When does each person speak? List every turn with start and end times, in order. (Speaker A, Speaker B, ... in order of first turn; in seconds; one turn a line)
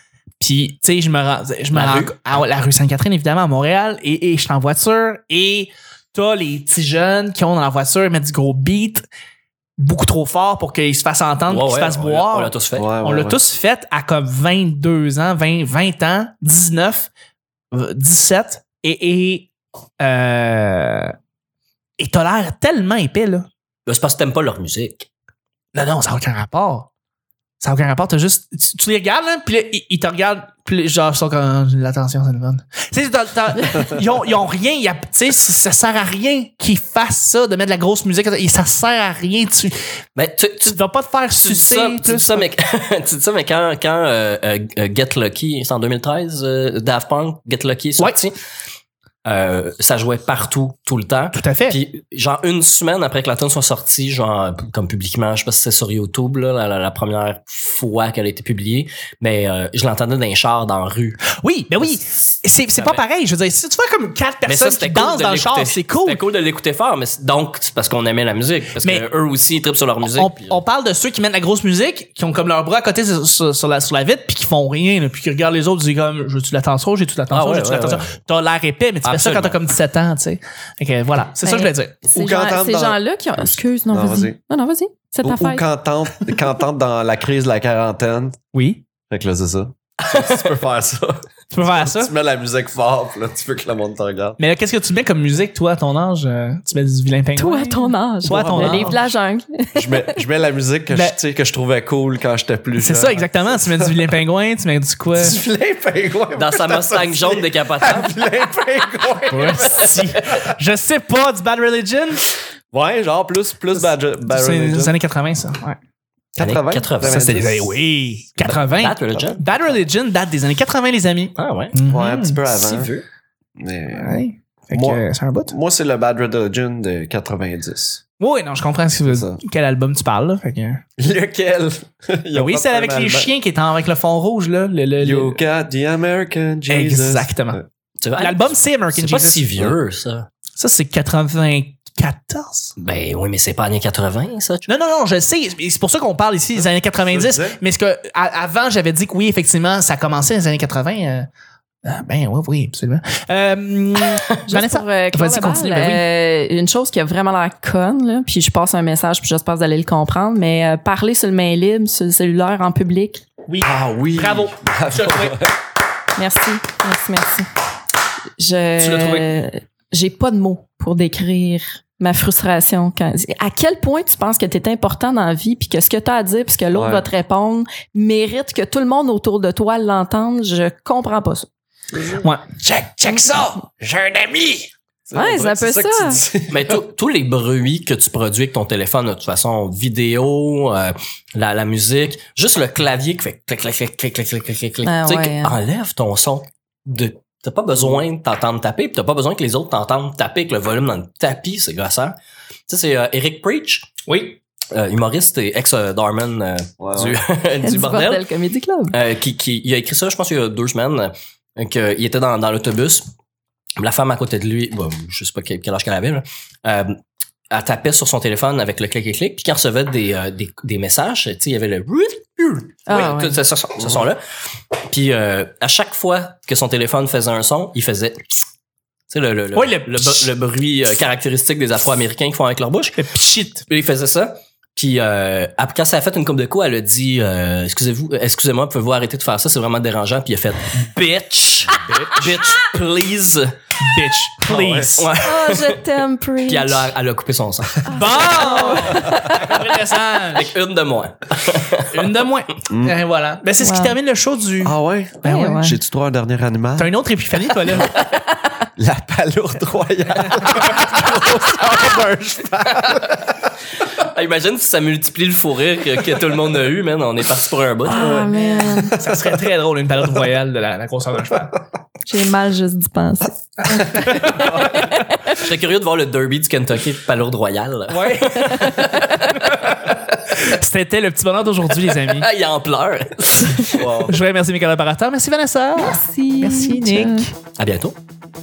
Speaker A: 0.4-9.1
Speaker B: 1.7-2.1
Speaker A: 9.8-17.1
Speaker B: 11.5-12.9
Speaker C: 12.8-13.4
Speaker A: 17.7-21.1
Speaker A: 22.0-23.5
Speaker B: 23.9-25.1
Speaker A: 25.7-26.9
Speaker A: 27.6-39.8
Speaker B: 40.1-48.4
Speaker A: 40.6-42.5
Speaker B: 49.2-61.2
Speaker A: 51.3-51.8
Speaker A: 61.2-66.2
Speaker B: 62.7-63.0
Speaker B: 64.4-70.6
Speaker A: 68.8-69.0
Speaker A: 70.0-82.0
Speaker B: 77.3-78.1
Speaker B: 79.0-79.6
Speaker D: 81.4-85.6
Speaker C: 82.0-84.4
Speaker C: 85.2-88.4
Speaker A: 88.5-88.8
Speaker C: 89.1-94.4
Speaker A: 91.5-92.1
Speaker A: 94.4-99.0
Speaker D: 97.3-100.2
Speaker C: 98.2-99.0
Speaker C: 99.8-104.0
Speaker A: 100.9-101.2
Speaker A: 102.7-105.4
Speaker C: 105.1-110.4
Speaker B: 106.3-108.2
Speaker A: 109.3-112.2
Speaker C: 112.7-115.0
Speaker A: 113.8-115.8
Speaker C: 116.3-117.8
Speaker B: 116.4-117.3
Speaker A: 117.0-122.4
Speaker C: 118.4-119.4
Speaker B: 118.5-119.4
Speaker B: 121.3-121.8
Speaker C: 121.9-122.9
Speaker B: 122.5-123.0
Speaker C: 123.6-124.2
Speaker A: 123.9-125.5
Speaker C: 124.7-128.0
Speaker A: 128.2-130.8
Speaker C: 129.1-129.4
Speaker C: 131.0-133.3
Speaker A: 132.3-135.4
Speaker C: 135.0-137.6
Speaker A: 136.7-137.6
Speaker B: 138.0-140.3
Speaker A: 138.2-139.7
Speaker A: 140.6-142.7
Speaker B: 142.8-144.7
Speaker A: 144.7-151.3
Speaker C: 146.5-147.6
Speaker A: 151.8-156.0
Speaker D: 154.4-163.2
Speaker A: 163.5-165.4
Speaker C: 163.6-165.5
Speaker D: 166.2-167.4
Speaker D: 168.4-181.5
Speaker A: 168.8-169.3
Speaker C: 176.7-177.1
Speaker C: 181.9-186.8
Speaker A: 182.2-182.6
Speaker D: 185.1-186.2
Speaker B: 186.5-202.2
Speaker D: 194.8-195.6
Speaker B: 202.7-204.0
Speaker A: 204.1-204.4
Speaker B: 204.7-208.2
Speaker C: 206.8-207.2
Speaker D: 207.6-208.9
Speaker B: 208.9-213.1
Speaker B: 213.8-217.0
Speaker B: 217.5-224.2
Speaker D: 222.9-223.4
Speaker B: 224.8-228.2
Speaker B: 229.1-233.0
Speaker A: 229.5-230.3
Speaker A: 233.0-233.7
Speaker B: 233.7-243.5
Speaker A: 243.8-245.1
Speaker C: 244.4-244.9
Speaker B: 245.0-245.8
Speaker D: 245.2-246.9
Speaker B: 246.4-247.8
Speaker D: 247.8-249.6
Speaker A: 247.9-250.5
Speaker B: 250.3-252.1
Speaker A: 251.9-255.6
Speaker C: 252.7-252.9
Speaker D: 253.6-254.0
Speaker C: 254.6-256.9
Speaker D: 255.2-255.8
Speaker A: 256.8-257.9
Speaker C: 258.8-263.2
Speaker B: 263.8-268.2
Speaker D: 267.9-269.0
Speaker C: 267.9-268.9
Speaker A: 268.9-271.5
Speaker D: 272.0-275.4
Speaker C: 274.4-274.8
Speaker B: 275.4-279.8
Speaker A: 277.9-278.9
Speaker D: 278.4-279.2
Speaker A: 279.8-282.3
Speaker B: 281.8-283.9
Speaker C: 283.7-284.1
Speaker A: 283.9-287.3
Speaker D: 285.8-287.3
Speaker B: 287.6-287.9